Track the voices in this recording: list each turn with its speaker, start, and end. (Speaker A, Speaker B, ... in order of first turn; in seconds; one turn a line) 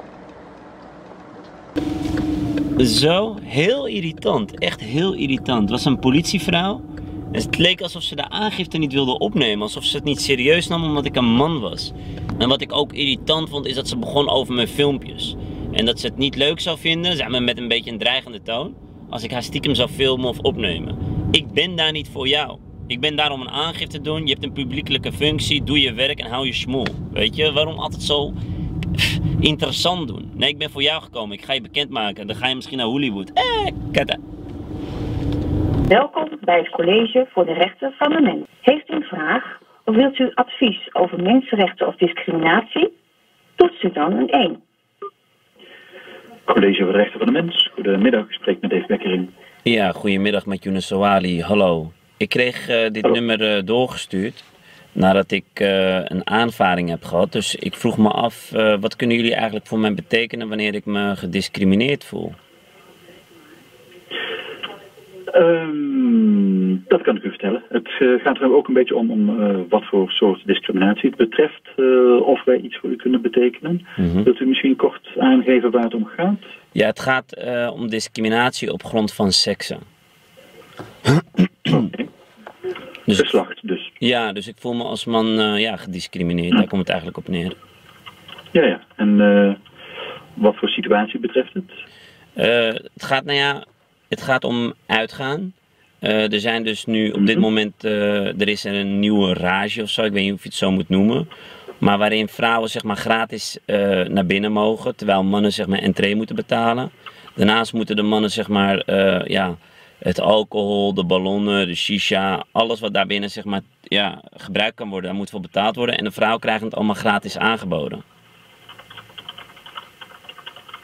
Speaker A: 2.8-28.4
Speaker A: 29.0-34.2
Speaker B: 35.9-42.9
Speaker B: 43.6-44.6
Speaker C: 46.5-49.3
Speaker A: 49.6-54.5
Speaker A: 55.0-62.4
Speaker C: 65.3-76.4
Speaker A: 74.0-74.3
Speaker A: 76.8-79.8
Speaker C: 81.7-82.0
Speaker C: 83.2-83.9
Speaker A: 84.0-87.6
Speaker C: 88.5-89.6
Speaker C: 90.4-91.7
Speaker A: 92.4-101.3
Speaker C: 97.2-97.4
Speaker A: 101.8-118.0